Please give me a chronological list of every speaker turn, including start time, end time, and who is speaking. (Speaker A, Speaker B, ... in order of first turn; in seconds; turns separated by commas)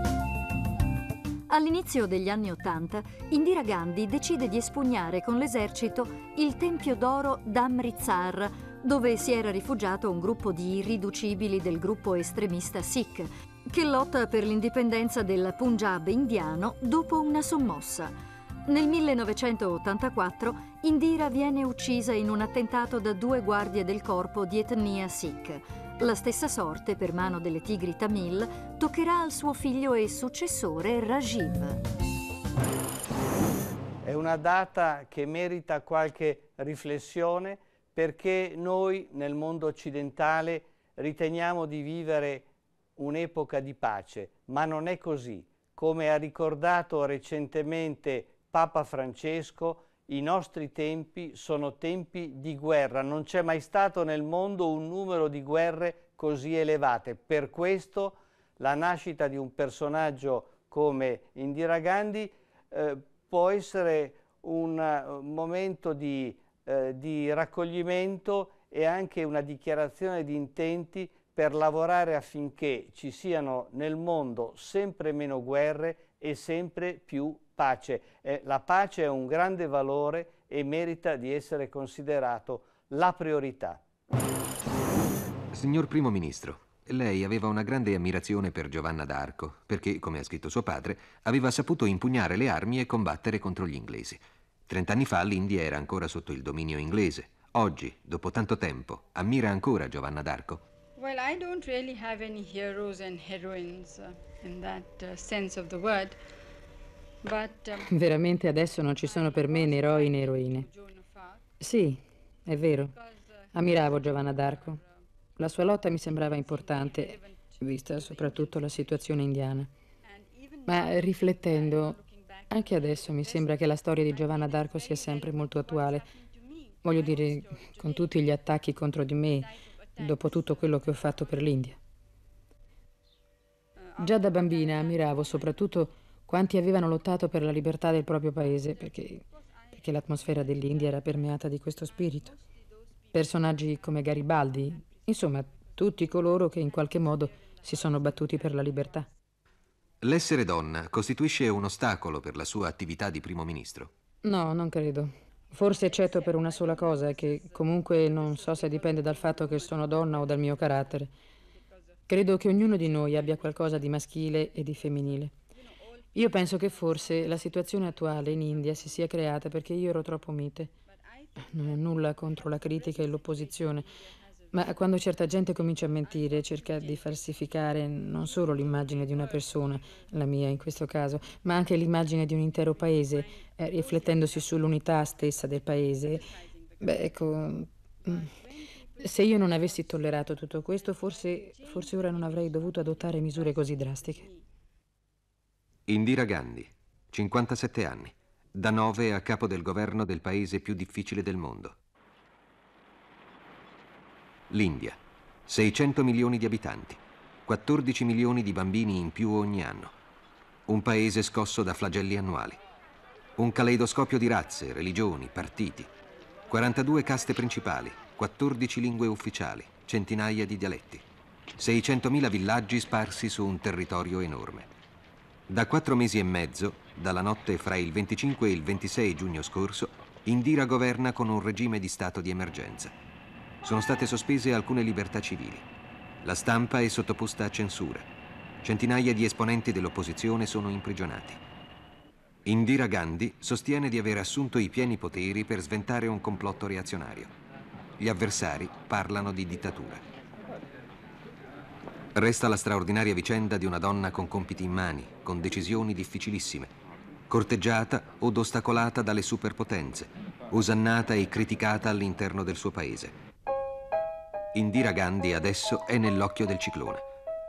Speaker A: 1.5-18.1, Speaker A: 18.6-31.8, Speaker B: 34.0-42.5, Speaker B: 43.0-83.8, Speaker C: 85.5-100.6, Speaker D: 101.0-106.2, Speaker D: 107.2-108.0, Speaker E: 107.8-110.7, Speaker D: 109.0-111.5, Speaker E: 111.6-112.9, Speaker D: 112.9-115.0, Speaker E: 113.5-114.8, Speaker E: 115.4-119.7, Speaker D: 116.1-119.1, Speaker D: 120.0-128.5, Speaker E: 120.7-122.0, Speaker E: 122.5-126.0, Speaker E: 126.8-131.8, Speaker D: 129.3-131.7, Speaker D: 133.8-135.9, Speaker E: 134.0-139.2, Speaker D: 138.3-149.1, Speaker E: 139.7-142.3, Speaker E: 143.1-149.1, Speaker C: 150.0-153.9, Speaker E: 154.2-161.1, Speaker D: 155.6-170.2, Speaker E: 162.1-165.3, Speaker E: 166.1-170.7, Speaker D: 170.8-180.8, Speaker E: 171.5-173.9, Speaker E: 174.5-186.2, Speaker D: 181.6-187.5, Speaker E: 186.8-188.2, Speaker D: 188.0-194.5, Speaker E: 189.0-194.2, Speaker C: 195.9-201.8, Speaker C: 204.5-209.9, Speaker C: 210.7-212.6, Speaker C: 213.4-215.9, Speaker C: 216.5-221.1, Speaker C: 221.6-224.7, Speaker C: 225.5-232.9, Speaker C: 233.6-235.7, Speaker C: 236.2-238.1, Speaker C: 238.6-241.4, Speaker C: 242.4-247.3, Speaker C: 248.0-250.0, Speaker C: 252.1-256.7, Speaker C: 257.3-263.1, Speaker C: 264.5-267.0